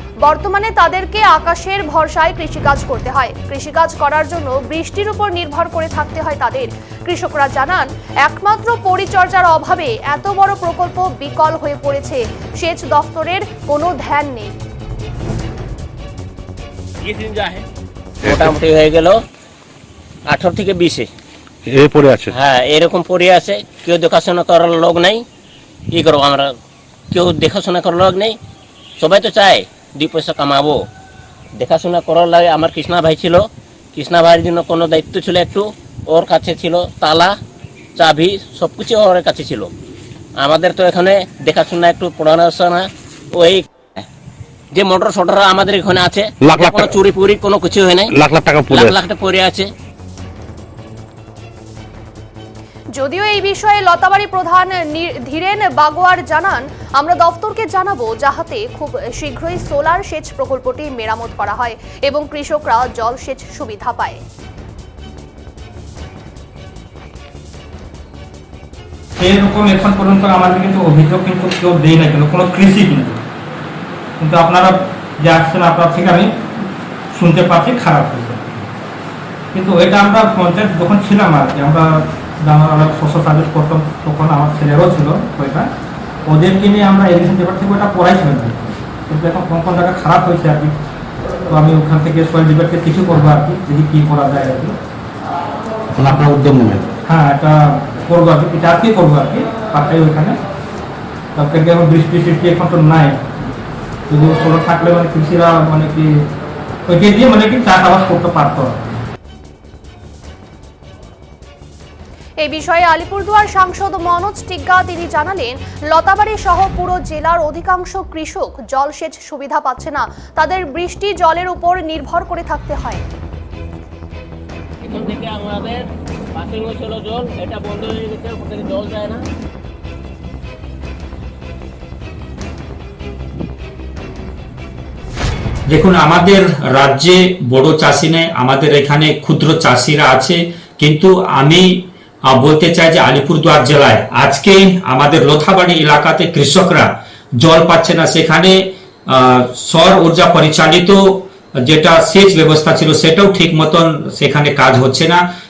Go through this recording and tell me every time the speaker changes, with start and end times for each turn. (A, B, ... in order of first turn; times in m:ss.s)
0:00.2-0:14.5 A
0:17.0-0:17.7 B
0:18.2-0:19.2 B
0:20.3-0:21.1 B
0:21.7-0:22.3 C
0:22.3-0:25.2 B
0:25.9-0:26.5 B
0:27.1-0:28.4 B
0:29.0-0:30.9 B
0:31.6-0:37.4 B
0:38.0-0:39.7 B
0:40.4-0:43.7 B
0:44.7-0:48.2 B
0:46.4-0:47.0 C
0:48.1-0:49.0 C
0:48.7-0:49.7 B
0:52.9-1:04.2 A
1:09.2-1:13.2 D
1:14.2-1:16.3 D
1:17.1-1:18.7 D
1:19.5-1:25.7 D
1:26.3-1:30.8 D
1:31.5-1:34.8 D
1:36.0-1:36.9 C
1:37.1-1:40.4 D
1:41.4-1:43.3 D
1:44.1-1:46.3 D
1:46.9-1:49.0 D
1:52.4-2:03.0 A
2:04.8-2:09.3 B
2:15.7-2:35.2 E